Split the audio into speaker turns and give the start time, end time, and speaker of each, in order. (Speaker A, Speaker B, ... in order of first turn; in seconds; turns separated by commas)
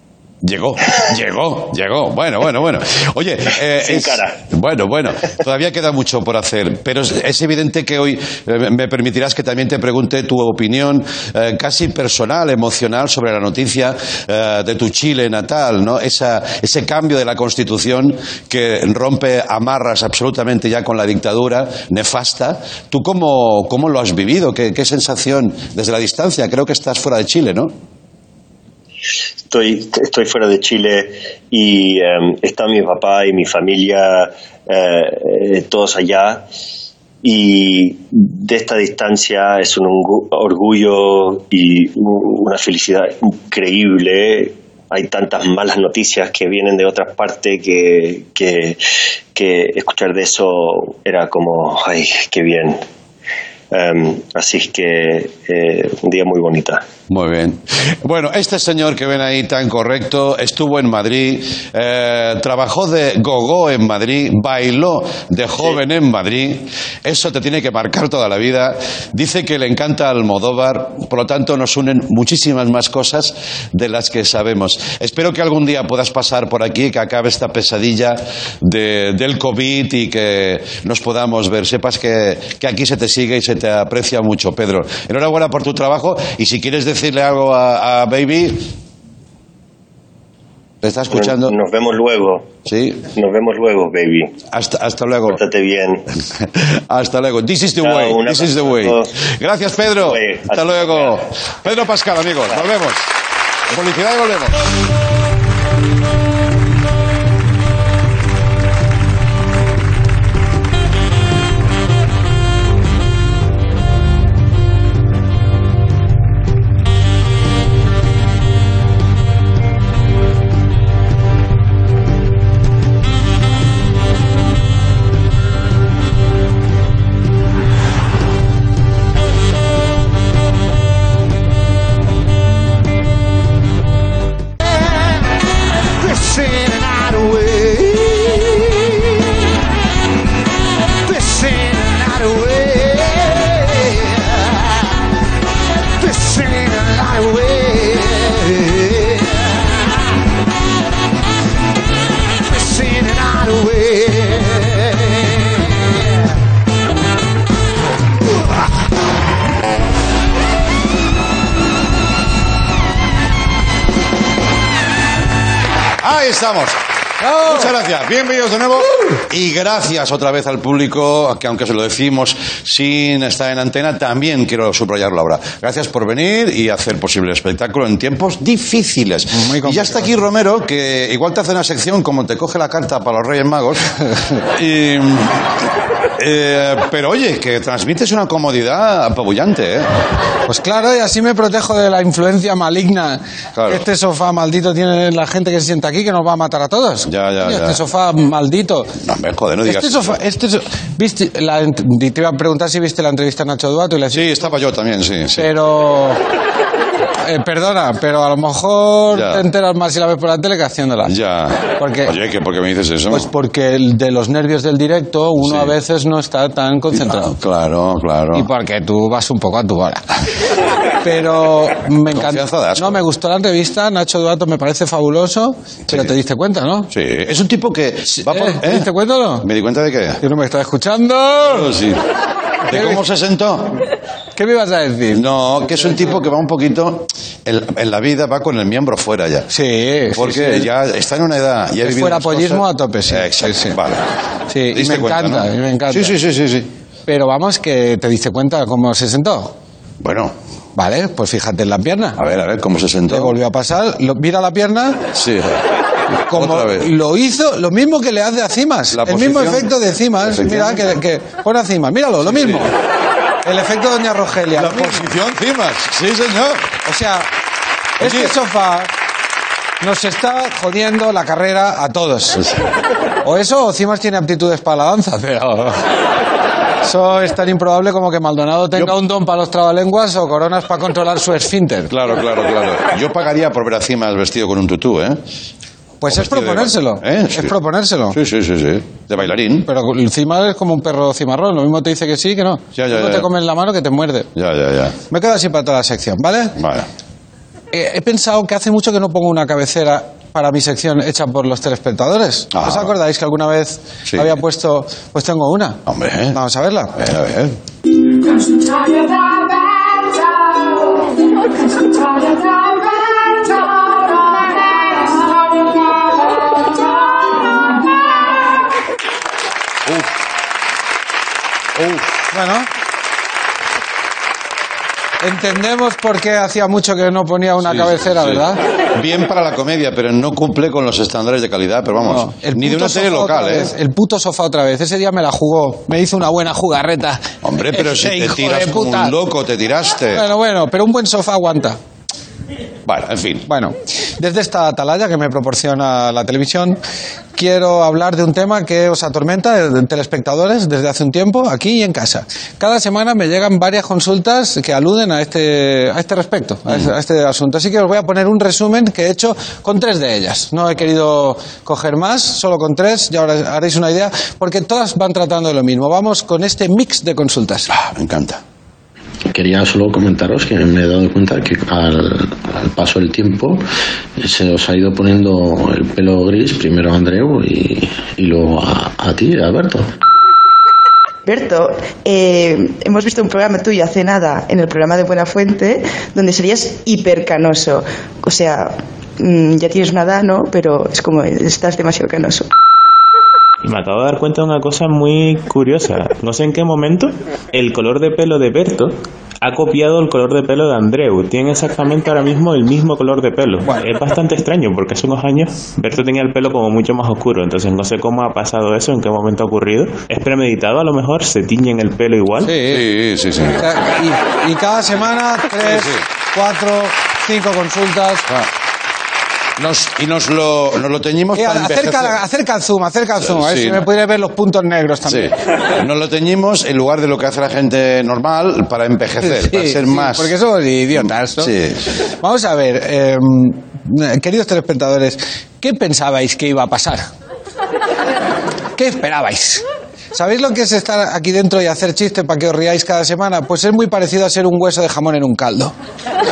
Speaker A: 0.4-27.7, Speaker B: 3.8-4.4, Speaker B: 29.5-36.5, Speaker B: 37.2-48.8, Speaker B: 49.3-52.8, Speaker B: 53.7-56.8, Speaker A: 57.1-88.7, Speaker A: 90.8-91.5, Speaker B: 91.1-92.5, Speaker A: 92.7-93.0, Speaker B: 93.1-94.3, Speaker A: 94.5-95.4, Speaker B: 95.3-96.0, Speaker A: 96.3-103.1, Speaker B: 97.8-99.1, Speaker B: 100.0-101.2, Speaker A: 103.7-104.7, Speaker C: 136.0-139.2, Speaker C: 141.1-144.8, Speaker C: 146.0-149.9, Speaker C: 152.4-156.1, Speaker A: 166.0-166.8, Speaker D: 167.2-167.7, Speaker A: 167.4-183.8, Speaker D: 179.3-180.1, Speaker A: 184.4-185.5, Speaker A: 186.2-189.9, Speaker D: 190.5-198.9, Speaker A: 193.6-193.8, Speaker A: 197.1-197.8, Speaker A: 199.0-200.1, Speaker D: 199.6-204.2, Speaker A: 204.1-205.5, Speaker D: 205.3-206.2, Speaker D: 207.2-211.1, Speaker A: 209.1-209.4, Speaker A: 211.1-213.3, Speaker D: 211.8-212.1, Speaker D: 213.1-217.3, Speaker A: 215.4-215.7, Speaker A: 216.9-218.5, Speaker D: 218.3-220.0, Speaker D: 221.0-226.9, Speaker A: 222.1-223.0, Speaker A: 226.9-228.9, Speaker D: 228.2-229.5, Speaker A: 229.4-230.2, Speaker D: 230.2-231.7, Speaker A: 231.4-232.0, Speaker A: 232.7-233.8, Speaker D: 232.7-233.0, Speaker D: 234.4-235.2, Speaker A: 235.1-239.5, Speaker D: 239.5-240.7, Speaker A: 240.1-244.0, Speaker D: 241.8-243.8, Speaker D: 244.5-246.1, Speaker A: 244.7-246.7, Speaker D: 247.1-249.5, Speaker A: 250.0-250.3, Speaker D: 250.8-252.2, Speaker A: 252.2-253.4, Speaker D: 253.1-255.0, Speaker A: 255.1-255.6, Speaker D: 256.3-262.7, Speaker A: 256.3-256.9, Speaker A: 258.9-259.7, Speaker A: 260.2-260.9, Speaker A: 262.2-262.7, Speaker D: 263.4-265.1, Speaker A: 264.5-266.8, Speaker D: 266.8-267.3, Speaker A: 268.0-268.3, Speaker D: 268.0-268.9, Speaker D: 269.8-272.4, Speaker A: 272.4-272.6, Speaker D: 273.2-275.8, Speaker D: 276.8-281.9, Speaker A: 281.9-285.2, Speaker D: 286.0-288.2, Speaker A: 286.1-287.5, Speaker A: 288.1-289.7, Speaker D: 289.6-294.3, Speaker A: 292.8-293.3, Speaker A: 294.4-295.0, Speaker D: 295.1-296.5, Speaker A: 296.6-296.9, Speaker D: 297.7-305.8, Speaker A: 302.5-302.9, Speaker A: 304.1-304.3, Speaker A: 305.9-306.4, Speaker D: 306.3-306.9, Speaker A: 306.9-307.6, Speaker A: 321.8-322.0, Speaker D: 322.3-322.7, Speaker D: 325.2-328.6, Speaker A: 327.6-328.4, Speaker A: 328.9-333.7, Speaker D: 331.9-339.1, Speaker A: 337.4-340.2, Speaker D: 340.1-341.8, Speaker A: 342.9-343.5, Speaker D: 343.5-346.8, Speaker D: 347.4-367.7, Speaker A: 367.7-368.4, Speaker E: 369.3-373.6, Speaker E: 374.2-379.9, Speaker F: 381.2-392.5, Speaker G: 393.6-412.6, Speaker D: 412.4-412.8, Speaker A: 412.6-413.7, Speaker D: 413.6-418.2, Speaker A: 415.6-416.0, Speaker A: 419.6-422.2, Speaker D: 421.3-425.3, Speaker A: 423.2-423.8, Speaker A: 425.0-430.3, Speaker D: 429.2-431.5, Speaker A: 430.9-431.9, Speaker D: 432.2-437.1, Speaker D: 438.8-445.7